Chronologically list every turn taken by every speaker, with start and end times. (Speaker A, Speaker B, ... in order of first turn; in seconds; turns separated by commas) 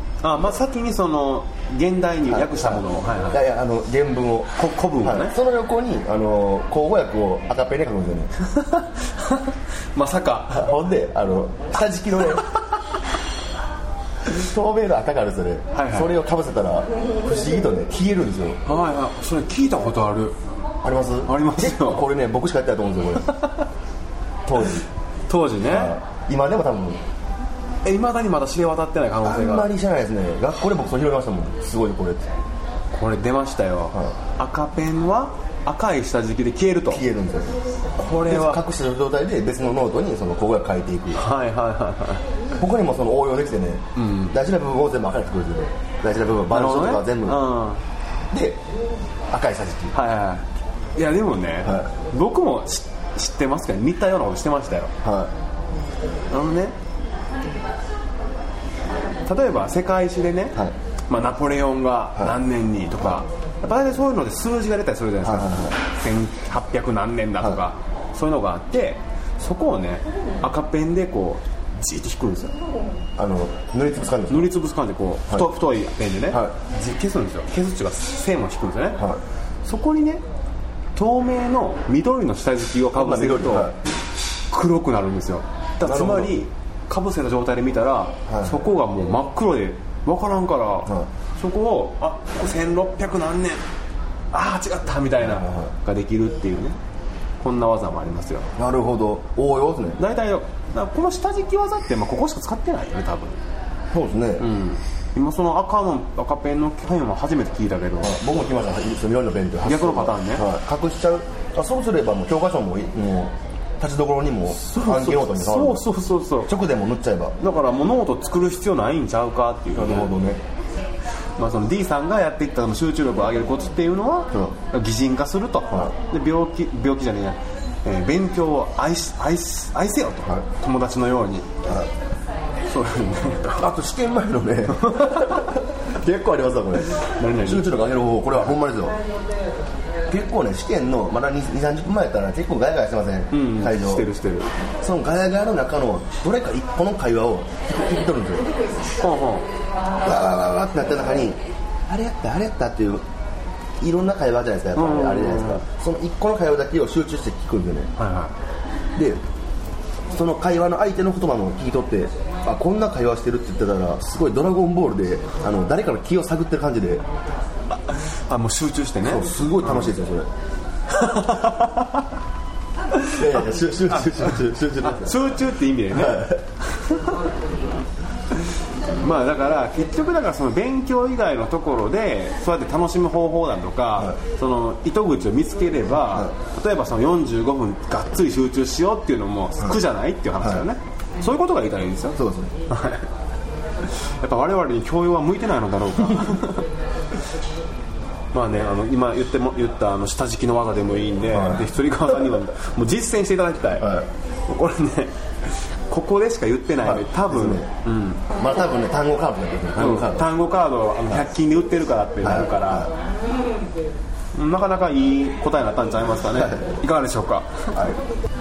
Speaker A: 0.2-3.4, Speaker B: 2.3-8.3, Speaker A: 4.5-5.3, Speaker A: 8.4-10.7, Speaker B: 10.5-12.5, Speaker B: 14.2-18.6, Speaker A: 15.7-16.1, Speaker A: 18.6-20.4, Speaker B: 20.8-23.3, Speaker A: 21.2-22.1, Speaker A: 23.2-23.6, Speaker B: 24.4-24.9, Speaker A: 25.3-26.0, Speaker B: 25.6-27.0, Speaker A: 27.8-29.7, Speaker B: 29.2-32.3, Speaker A: 32.9-37.0, Speaker B: 36.9-37.6, Speaker A: 38.0-38.6, Speaker B: 38.2-41.2, Speaker A: 41.1-42.3, Speaker B: 42.5-47.4, Speaker A: 44.0-44.4, Speaker A: 46.5-47.8, Speaker B: 48.3-48.6, Speaker B: 49.3-49.9, Speaker A: 49.9-54.9, Speaker B: 55.0-55.3, Speaker A: 56.3-56.7, Speaker A: 59.3-72.5, Speaker B: 65.2-65.8, Speaker B: 73.2-74.5, Speaker A: 74.3-79.0, Speaker A: 79.6-80.2, Speaker A: 81.0-83.7, Speaker B: 82.9-83.8, Speaker A: 84.5-93.6, Speaker B: 85.8-86.3, Speaker B: 88.3-88.6, Speaker A: 94.3-96.8, Speaker B: 95.2-95.7, Speaker A: 97.4-98.5, Speaker B: 98.5-100.0, Speaker A: 100.0-103.4, Speaker B: 103.9-104.5, Speaker A: 104.4-108.2, Speaker B: 108.0-115.8, Speaker A: 109.6-110.5, Speaker A: 114.5-116.5, Speaker B: 116.5-117.3, Speaker A: 117.4-120.1, Speaker B: 119.7-120.4, Speaker A: 121.4-131.5, Speaker A: 132.7-133.7, Speaker B: 133.6-139.0, Speaker A: 134.8-135.4, Speaker A: 136.8-137.8, Speaker B: 140.1-144.1, Speaker A: 143.3-144.5, Speaker B: 144.8-148.6, Speaker A: 149.0-149.4, Speaker B: 150.0-153.0, Speaker B: 153.8-157.9, Speaker A: 154.7-155.6, Speaker A: 158.0-158.3, Speaker B: 158.9-159.2, Speaker B: 160.1-167.0, Speaker A: 167.9-169.9, Speaker B: 169.0-170.3, Speaker A: 170.9-172.1, Speaker A: 172.9-177.1, Speaker B: 173.1-175.3, Speaker B: 175.9-176.4, Speaker A: 179.0-192.2, Speaker B: 190.4-190.6, Speaker B: 192.2-192.5, Speaker A: 192.7-193.1, Speaker A: 193.9-196.7, Speaker A: 198.3-208.2, Speaker B: 201.3-201.7, Speaker B: 203.8-204.1, Speaker B: 206.8-207.7, Speaker B: 208.3-210.3, Speaker A: 209.8-212.9, Speaker B: 212.2-212.9, Speaker A: 214.3-217.8, Speaker B: 216.3-216.7, Speaker B: 217.7-218.0